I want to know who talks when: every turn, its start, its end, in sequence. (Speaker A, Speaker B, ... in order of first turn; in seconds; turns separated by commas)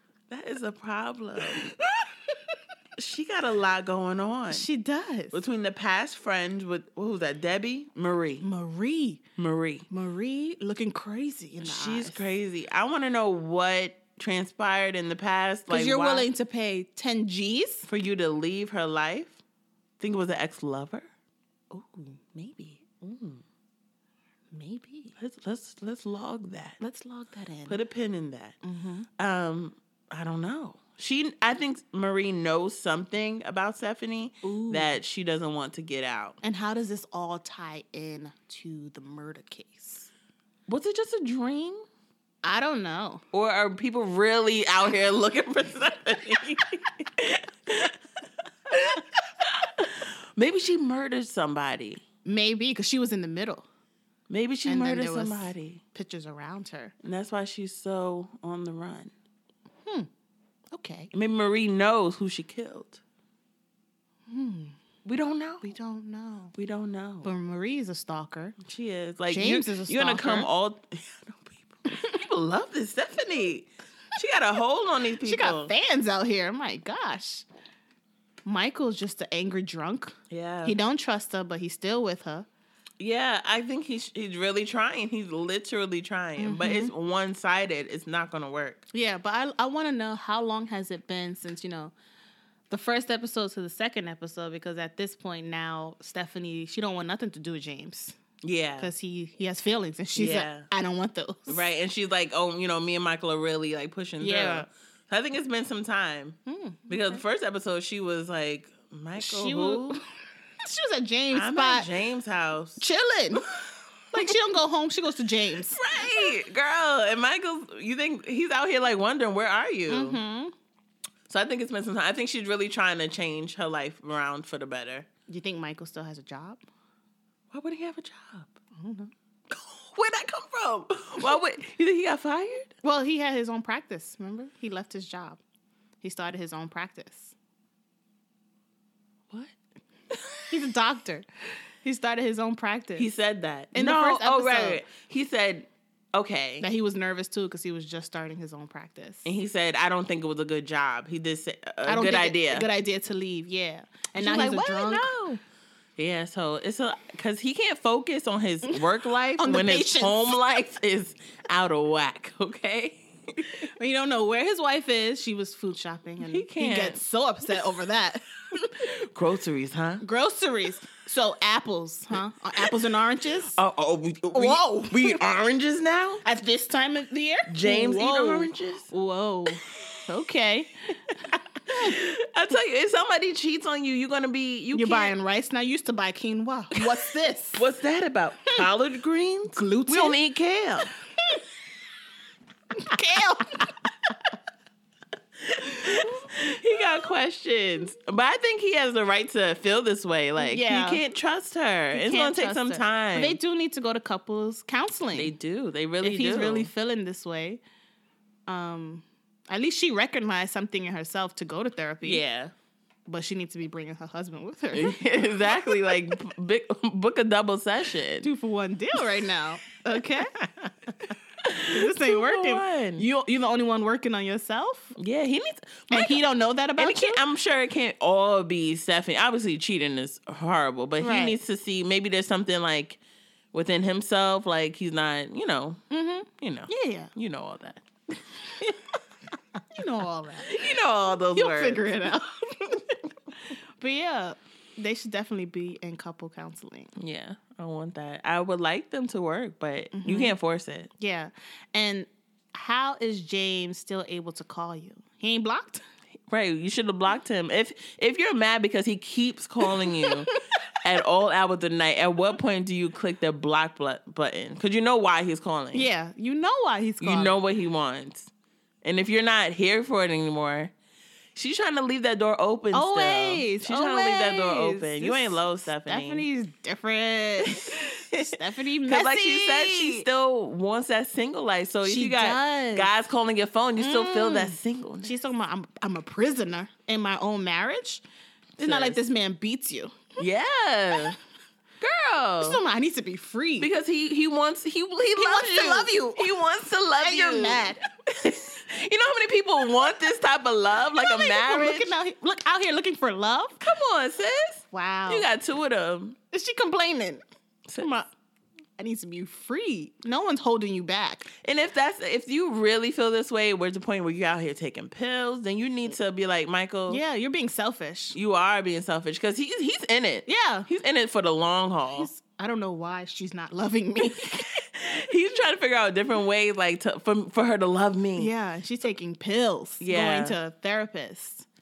Speaker A: 0.3-1.7, Speaker A: 3.0-4.7, Speaker B: 4.5-5.4, Speaker A: 5.3-8.4, Speaker B: 8.4-9.2, Speaker A: 9.4-9.9, Speaker B: 9.9-12.2, Speaker A: 11.6-16.3, Speaker B: 15.7-17.9, Speaker A: 17.9-19.4, Speaker A: 20.0-21.1, Speaker B: 21.7-22.9, Speaker A: 23.0-23.4, Speaker B: 24.5-25.2, Speaker A: 25.2-26.8, Speaker B: 26.8-27.8, Speaker A: 27.7-28.6, Speaker B: 28.6-29.1, Speaker A: 29.2-36.4, Speaker B: 34.4-35.0, Speaker B: 36.4-40.1, Speaker A: 40.7-41.8, Speaker B: 42.4-43.2, Speaker A: 43.3-48.0, Speaker A: 48.7-52.0, Speaker B: 52.2-53.7, Speaker A: 54.3-55.8, Speaker B: 54.6-56.9, Speaker A: 57.0-59.1, Speaker B: 60.7-61.1, Speaker A: 61.1-63.0, Speaker B: 64.3-64.8, Speaker A: 65.0-65.7, Speaker B: 65.6-66.5, Speaker A: 66.6-67.3, Speaker B: 67.2-68.5, Speaker A: 68.6-75.7, Speaker B: 69.3-70.5, Speaker B: 75.2-77.5, Speaker B: 78.5-82.5, Speaker A: 80.3-80.8, Speaker A: 83.0-88.8, Speaker B: 86.4-86.9, Speaker B: 88.9-91.9, Speaker B: 92.7-98.2, Speaker A: 98.4-98.9, Speaker B: 98.8-101.7, Speaker A: 100.2-100.7, Speaker A: 101.5-106.4, Speaker B: 104.2-104.7, Speaker B: 106.5-107.2, Speaker A: 106.9-110.0, Speaker B: 109.2-110.0, Speaker B: 110.6-111.9, Speaker A: 111.3-112.8, Speaker B: 112.8-113.4, Speaker A: 113.3-113.6, Speaker B: 114.1-116.0, Speaker A: 115.7-120.2, Speaker B: 119.9-120.5, Speaker A: 121.3-125.1, Speaker B: 125.3-126.6, Speaker A: 127.5-128.5, Speaker B: 128.8-129.1, Speaker A: 129.5-132.7, Speaker B: 132.8-135.4, Speaker B: 136.0-137.3, Speaker A: 140.2-140.4, Speaker B: 140.5-141.3, Speaker B: 141.8-143.1, Speaker A: 143.0-146.7, Speaker B: 143.7-144.8, Speaker B: 146.6-149.3, Speaker A: 149.2-152.7, Speaker B: 151.9-155.1, Speaker A: 154.2-155.4, Speaker A: 156.0-163.5, Speaker B: 159.4-160.4, Speaker B: 163.8-168.3, Speaker A: 166.2-167.0, Speaker A: 168.6-170.0, Speaker B: 170.0-173.6, Speaker A: 173.6-176.2, Speaker B: 174.3-175.2, Speaker B: 176.2-181.1, Speaker A: 177.5-178.9, Speaker B: 181.7-182.0, Speaker A: 181.7-185.1, Speaker B: 184.7-187.6, Speaker A: 186.7-190.9, Speaker B: 189.5-190.2, Speaker B: 192.7-193.7, Speaker A: 195.6-203.4, Speaker B: 200.4-201.0, Speaker B: 201.9-205.3, Speaker A: 205.2-206.7, Speaker B: 206.0-207.6, Speaker B: 208.5-212.2, Speaker A: 212.0-212.5, Speaker B: 213.1-215.0, Speaker A: 214.7-218.3, Speaker B: 218.2-220.3, Speaker A: 220.4-220.7, Speaker A: 221.4-223.0, Speaker B: 221.6-224.9, Speaker A: 225.0-226.2, Speaker B: 225.9-227.2, Speaker A: 226.8-233.0, Speaker B: 231.0-231.4, Speaker A: 233.5-235.8, Speaker B: 235.9-237.1, Speaker A: 236.4-237.8, Speaker B: 239.8-240.6, Speaker A: 240.5-241.9, Speaker B: 241.3-242.9, Speaker B: 243.8-246.9, Speaker A: 247.0-250.9, Speaker B: 249.9-250.4, Speaker B: 251.0-255.8, Speaker A: 256.3-265.9, Speaker B: 259.8-260.1, Speaker B: 265.7-267.4, Speaker A: 267.0-268.3, Speaker A: 268.8-270.7, Speaker A: 271.4-276.3, Speaker B: 272.7-280.1, Speaker A: 277.5-285.1, Speaker B: 281.8-282.9, Speaker B: 283.8-288.0, Speaker A: 288.6-289.0, Speaker B: 288.6-290.0, Speaker A: 290.2-291.2, Speaker A: 291.8-292.6, Speaker B: 292.4-293.7, Speaker A: 293.6-301.9, Speaker B: 295.2-296.4, Speaker B: 297.0-297.8, Speaker B: 300.9-303.6, Speaker A: 303.6-306.2, Speaker B: 304.7-305.2, Speaker B: 306.3-307.2, Speaker B: 307.8-308.1, Speaker B: 308.8-311.3, Speaker A: 311.4-317.0, Speaker B: 316.9-318.2, Speaker A: 318.1-322.1, Speaker B: 320.3-320.7, Speaker B: 321.9-324.5, Speaker A: 324.1-328.3, Speaker B: 328.2-331.5, Speaker A: 329.8-330.4